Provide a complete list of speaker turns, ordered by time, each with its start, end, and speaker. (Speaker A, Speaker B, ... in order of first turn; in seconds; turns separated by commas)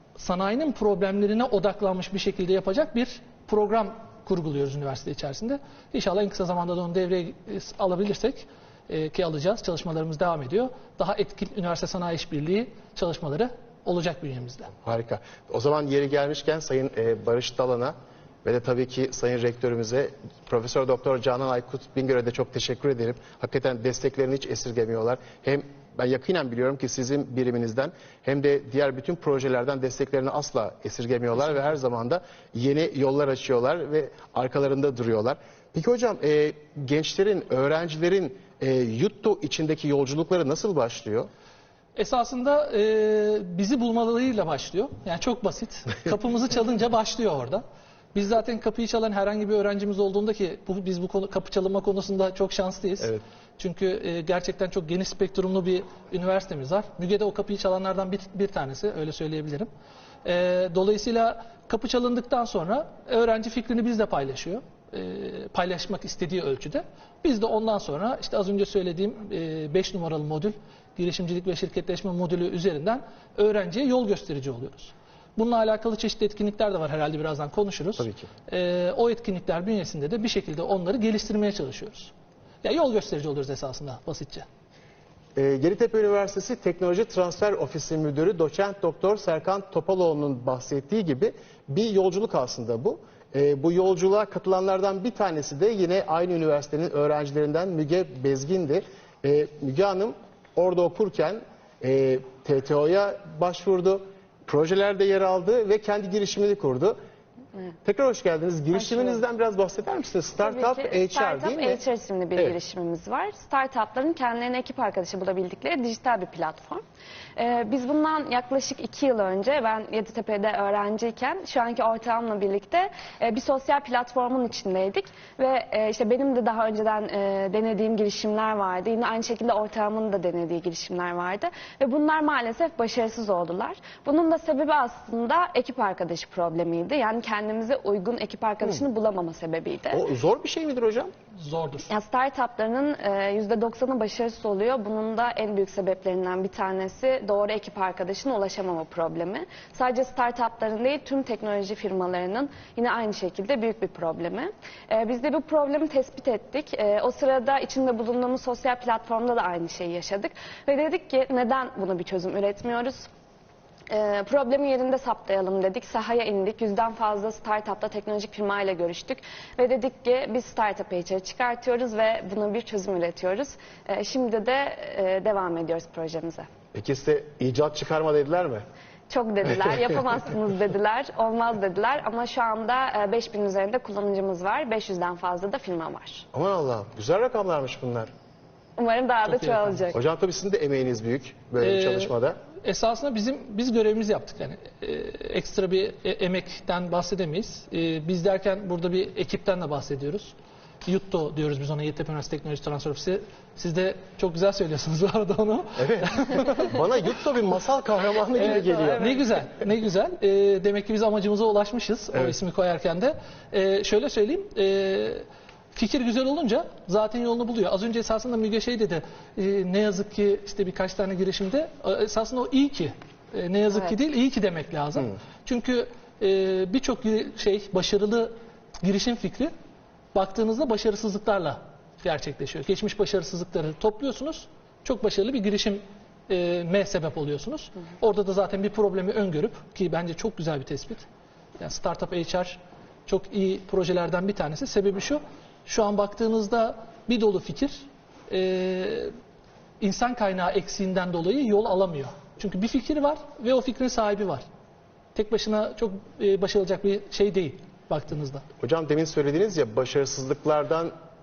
Speaker A: 0.1-14.7, Speaker B: 14.8-41.3, Speaker A: 42.0-47.6, Speaker A: 48.1-59.7, Speaker A: 60.2-84.5, Speaker B: 78.0-78.3, Speaker B: 85.3-107.0, Speaker B: 107.8-111.8, Speaker C: 108.7-109.2, Speaker C: 110.4-116.8, Speaker C: 117.4-140.0, Speaker B: 139.9-141.1, Speaker A: 141.4-141.9, Speaker C: 141.9-163.1, Speaker C: 163.9-176.5, Speaker B: 176.7-178.6, Speaker C: 179.1-186.3, Speaker B: 186.3-188.1, Speaker C: 188.8-190.0, Speaker A: 189.2-189.8, Speaker B: 189.9-192.4, Speaker A: 191.6-206.8, Speaker B: 205.8-209.2, Speaker A: 208.3-229.5, Speaker C: 208.4-209.2, Speaker C: 223.7-223.9, Speaker A: 230.1-241.1, Speaker A: 241.6-249.1, Speaker A: 249.8-254.4, Speaker A: 255.1-258.4, Speaker B: 258.6-260.9